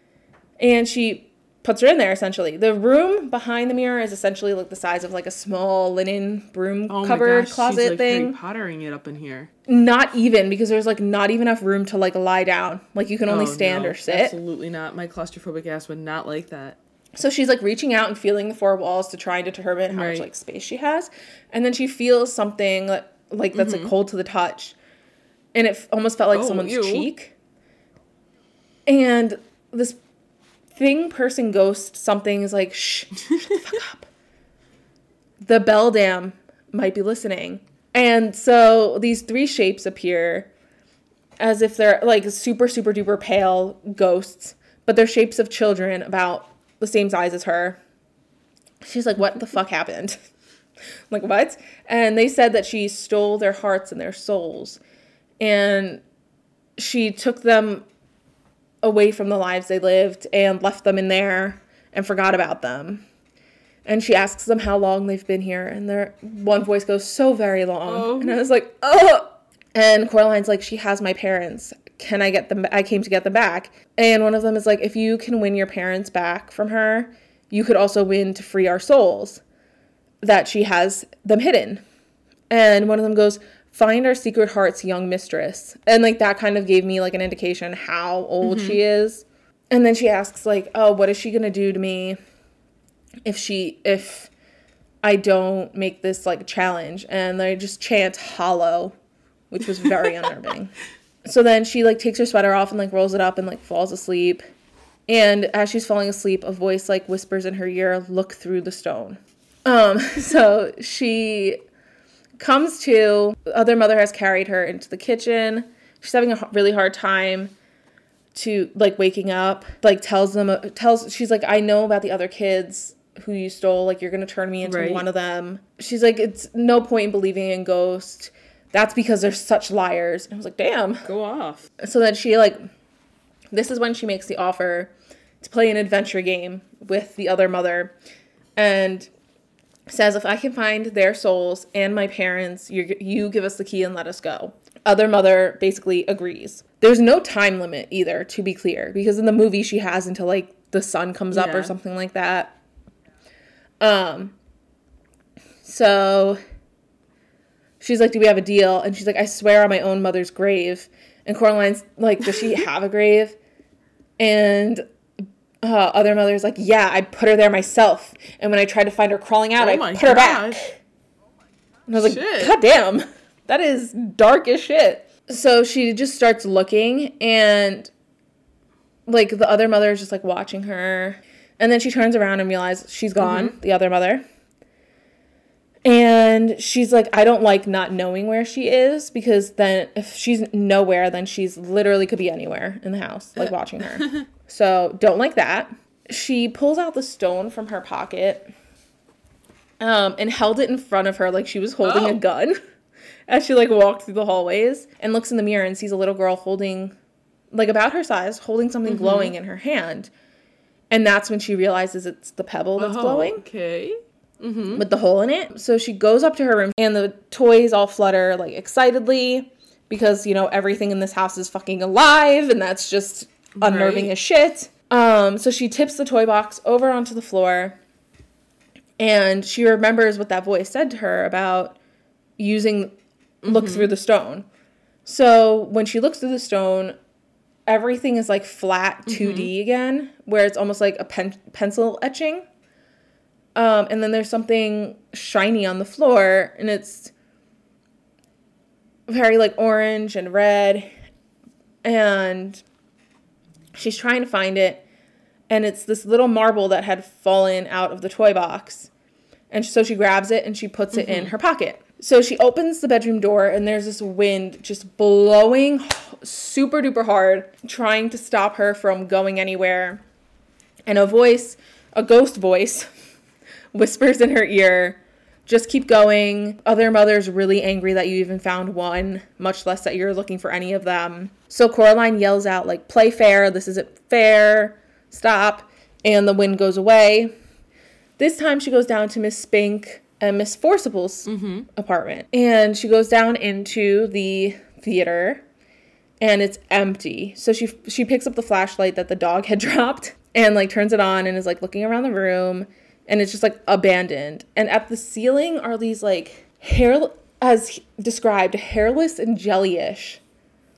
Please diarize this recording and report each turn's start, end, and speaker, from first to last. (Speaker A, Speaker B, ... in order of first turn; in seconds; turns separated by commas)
Speaker A: 0.6-8.4, Speaker B: 6.9-9.5, Speaker A: 9.7-14.3, Speaker B: 13.3-16.8, Speaker A: 17.2-24.8, Speaker B: 19.9-20.3, Speaker B: 23.5-23.9, Speaker A: 25.5-27.3, Speaker B: 26.3-27.1, Speaker A: 28.9-30.0, Speaker A: 30.7-34.1, Speaker B: 33.3-33.7, Speaker A: 35.4-40.5, Speaker A: 41.4-47.8, Speaker A: 48.8-50.2, Speaker A: 51.1-54.8, Speaker A: 55.4-56.0, Speaker A: 56.8-57.8, Speaker A: 58.8-63.0, Speaker A: 63.8-79.4, Speaker B: 67.9-68.4, Speaker A: 80.2-81.8, Speaker A: 82.5-92.2, Speaker B: 88.4-88.8, Speaker A: 93.2-94.3, Speaker A: 95.0-98.9, Speaker A: 99.5-104.4, Speaker A: 105.1-111.6, Speaker A: 112.4-117.5, Speaker A: 118.3-131.1, Speaker B: 124.6-125.0, Speaker B: 131.0-131.7, Speaker A: 131.8-132.6, Speaker A: 133.5-137.9, Speaker A: 138.6-139.1, Speaker A: 139.9-152.5, Speaker B: 151.3-151.7, Speaker A: 153.8-154.3, Speaker A: 155.6-156.4, Speaker A: 157.8-163.4, Speaker A: 164.2-164.8, Speaker A: 165.6-170.8, Speaker B: 169.6-170.6, Speaker A: 171.9-177.9, Speaker B: 171.9-172.5, Speaker A: 179.1-184.2, Speaker B: 183.2-183.5, Speaker A: 185.8-198.5, Speaker B: 193.4-194.2, Speaker A: 199.8-202.6, Speaker B: 201.8-202.2, Speaker A: 203.3-206.9, Speaker A: 207.5-210.1, Speaker B: 208.8-209.3, Speaker A: 210.9-213.4, Speaker B: 212.8-214.8, Speaker A: 214.7-227.8, Speaker B: 223.6-224.1, Speaker A: 229.0-231.8, Speaker A: 232.4-234.4, Speaker B: 233.4-233.9, Speaker A: 235.0-236.9, Speaker A: 237.7-242.4, Speaker B: 239.1-239.5, Speaker A: 243.5-247.1, Speaker A: 249.1-250.9, Speaker A: 251.8-252.6, Speaker A: 253.8-254.8, Speaker A: 255.5-258.9, Speaker A: 259.5-270.0, Speaker B: 260.9-261.3, Speaker A: 270.9-272.9, Speaker A: 273.7-287.3, Speaker A: 288.2-295.4, Speaker B: 291.2-291.7, Speaker A: 296.2-310.2